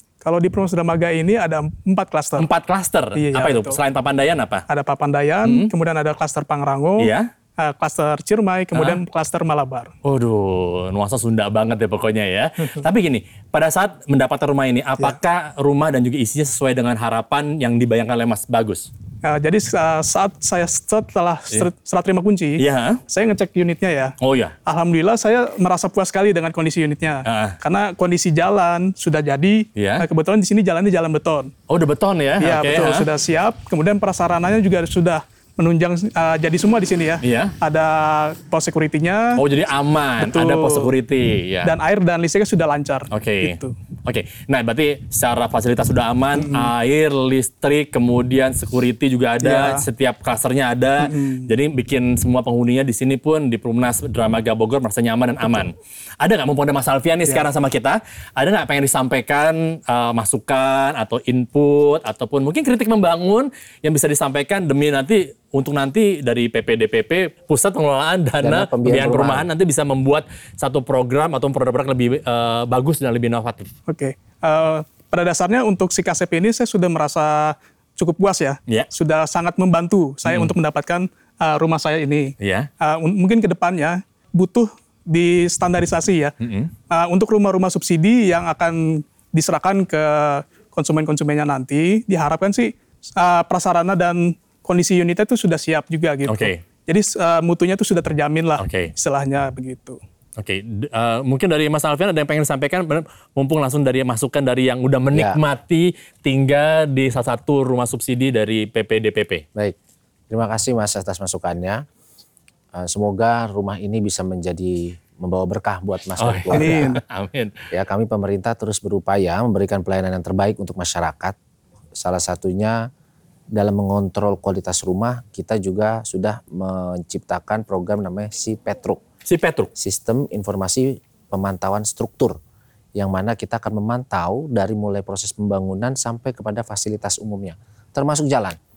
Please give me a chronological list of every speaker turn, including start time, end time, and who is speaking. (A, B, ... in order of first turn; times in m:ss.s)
0:00.2-0:02.5 A
0:02.4-0:04.6 B
0:03.2-0:03.8 A
0:04.7-0:09.9 A
0:05.4-0:05.7 B
0:07.0-0:07.3 B
0:08.7-0:09.0 B
0:10.0-0:18.9 B
0:19.2-0:31.5 A
0:22.6-0:23.0 B
0:24.2-0:24.5 B
0:27.2-0:27.6 B
0:29.8-0:30.0 B
0:31.7-0:33.1 B
0:32.4-0:39.4 A
0:37.2-0:37.5 B
0:39.4-0:41.7 B
0:40.2-0:40.9 A
0:41.6-0:43.7 A
0:43.1-1:13.7 B
0:46.4-0:46.7 A
0:49.4-0:49.8 A
0:51.0-0:51.5 A
1:08.4-1:09.5 C
1:13.9-1:26.4 A
1:20.2-1:20.5 B
1:22.4-1:22.7 B
1:26.4-1:26.7 B
1:26.9-1:40.0 A
1:36.2-1:36.6 B
1:38.6-1:38.9 B
1:40.4-1:49.4 B
1:45.1-1:45.4 C
1:50.3-1:51.8 C
1:52.7-1:56.9 C
1:56.2-1:57.6 B
1:56.5-1:57.0 A
1:57.7-2:01.4 C
2:02.0-2:02.9 C
2:03.5-2:09.0 C
2:09.2-2:09.7 B
2:09.8-2:12.4 C
2:13.0-2:18.6 C